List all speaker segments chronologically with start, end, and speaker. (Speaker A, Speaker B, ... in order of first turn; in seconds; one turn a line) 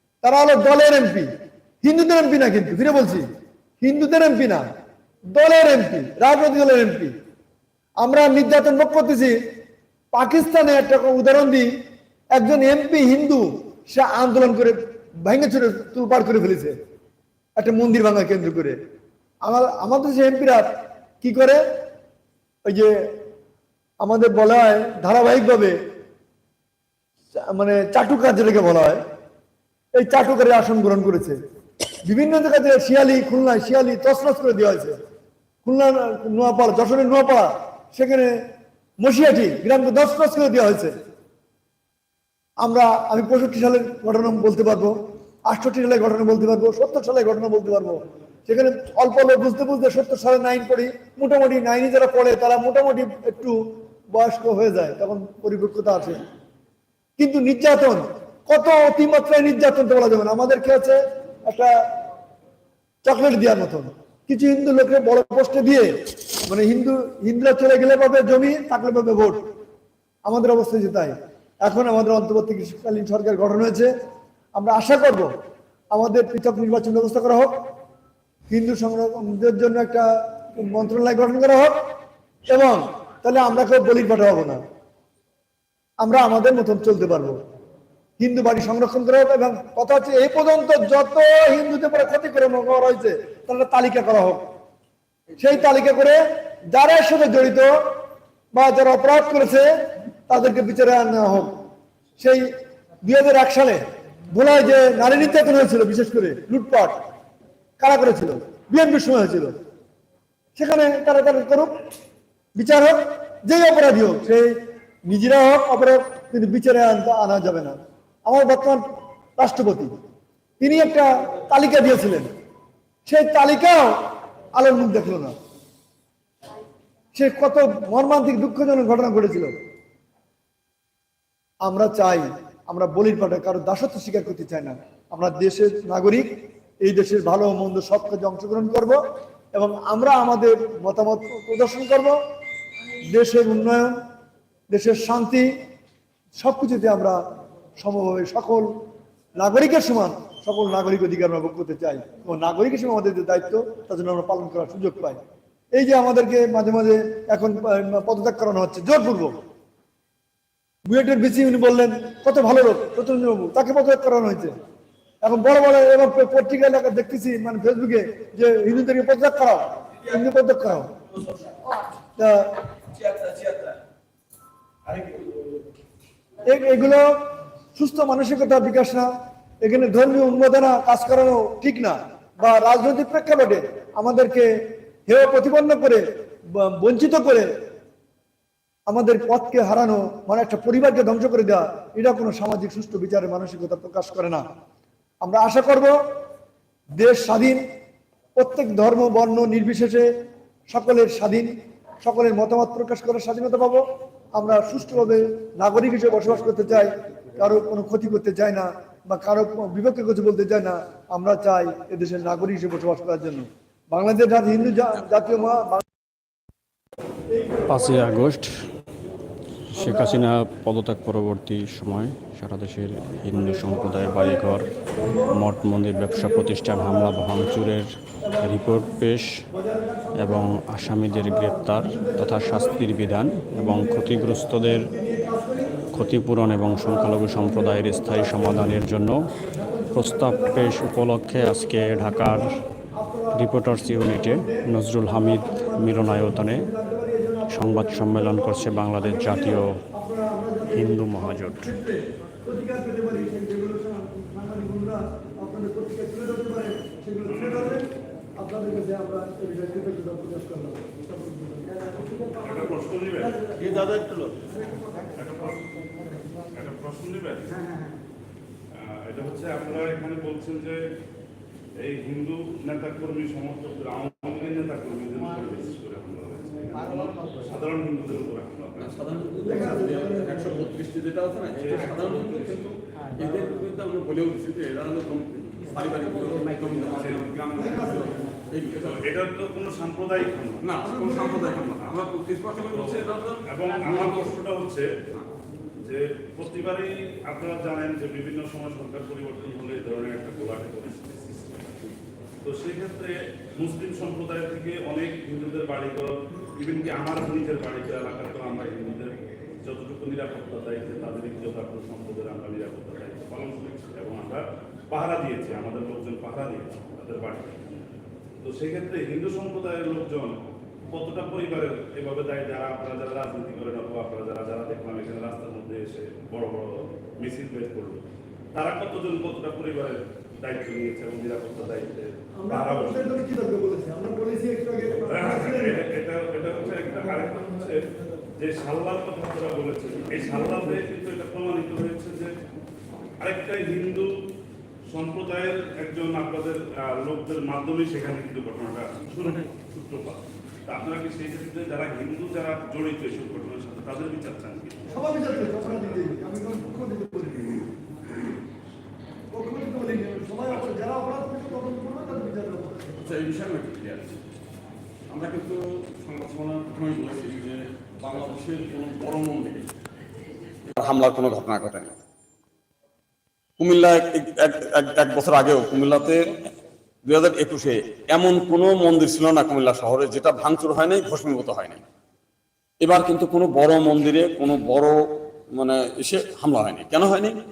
Speaker A: 0.2-1.3
Speaker A: 1.8-3.3
Speaker A: 3.8-4.7
Speaker A: 5.3-7.1
Speaker A: 8.0-9.4
Speaker A: 10.1-11.7
Speaker A: 12.3-16.8
Speaker A: 17.6-18.8
Speaker A: 19.4-20.7
Speaker A: 21.2-21.6
Speaker A: 22.7-23.1
Speaker A: 24.0-25.8
Speaker A: 27.4-29.0
Speaker A: 29.9-31.4
Speaker A: 32.1-35.0
Speaker A: 35.6-38.3
Speaker A: 39.0-41.0
Speaker A: 42.6-45.0
Speaker A: 45.5-53.6
Speaker A: 54.1-56.2
Speaker A: 57.2-61.8
Speaker A: 63.0-65.9
Speaker A: 66.5-69.4
Speaker A: 70.3-73.9
Speaker A: 74.5-75.3
Speaker A: 75.9-77.5
Speaker A: 78.5-81.8
Speaker A: 82.5-84.6
Speaker A: 86.0-87.4
Speaker A: 88.2-94.4
Speaker A: 95.4-96.2
Speaker A: 96.7-97.7
Speaker A: 98.5-99.7
Speaker A: 100.3-101.6
Speaker A: 102.2-102.5
Speaker A: 103.0-107.0
Speaker A: 107.8-109.5
Speaker A: 110.6-111.7
Speaker A: 112.6-114.5
Speaker A: 115.1-118.8
Speaker A: 119.4-119.9
Speaker A: 120.6-122.3
Speaker A: 123.1-124.0
Speaker A: 124.5-125.3
Speaker A: 127.1-129.5
Speaker A: 131.6-136.3
Speaker A: 136.8-139.0
Speaker A: 139.5-142.2
Speaker A: 143.1-144.0
Speaker A: 144.7-145.5
Speaker A: 146.4-147.2
Speaker A: 147.8-148.7
Speaker A: 149.4-155.2
Speaker A: 155.7-159.3
Speaker A: 160.8-164.6
Speaker A: 165.2-170.9
Speaker A: 172.2-172.5
Speaker A: 176.4-177.1
Speaker A: 177.8-179.1
Speaker A: 179.6-184.5
Speaker A: 185.1-187.5
Speaker A: 188.9-194.4
Speaker A: 195.2-195.9
Speaker A: 197.0-197.6
Speaker A: 198.4-200.1
Speaker A: 200.7-203.8
Speaker A: 204.3-215.8
Speaker A: 217.4-218.2
Speaker B: 217.7-218.5
Speaker B: 219.7-224.7
Speaker A: 219.8-220.2
Speaker A: 223.3-225.4
Speaker B: 225.2-229.4
Speaker A: 225.9-227.7
Speaker A: 228.2-229.0
Speaker A: 229.5-230.5
Speaker B: 230.2-234.9
Speaker A: 231.1-235.9
Speaker B: 235.9-239.3
Speaker A: 236.8-238.6
Speaker A: 239.4-262.5
Speaker B: 239.9-242.6
Speaker B: 243.3-246.7
Speaker B: 247.5-249.8
Speaker B: 250.7-251.7
Speaker C: 257.3-257.7
Speaker C: 262.4-263.6
Speaker C: 265.1-265.9
Speaker C: 266.5-267.6
Speaker C: 268.8-270.8
Speaker C: 271.8-278.9
Speaker D: 278.8-289.0
Speaker A: 279.6-280.0
Speaker C: 281.6-282.1
Speaker C: 286.7-287.2
Speaker A: 287.6-288.1
Speaker C: 288.9-291.1
Speaker D: 290.6-294.3
Speaker C: 292.6-294.9
Speaker C: 295.8-301.2
Speaker C: 302.4-317.6
Speaker C: 318.4-320.4
Speaker C: 320.9-328.0
Speaker C: 328.5-333.1
Speaker A: 332.4-335.8
Speaker C: 335.1-337.8
Speaker C: 338.4-342.3
Speaker C: 343.2-344.1
Speaker C: 344.9-354.9
Speaker A: 354.9-357.7
Speaker A: 359.3-363.0
Speaker D: 363.0-364.2
Speaker D: 365.1-369.7
Speaker D: 370.7-372.0
Speaker D: 373.6-376.3
Speaker D: 377.1-381.8
Speaker D: 382.8-385.0
Speaker D: 385.6-387.4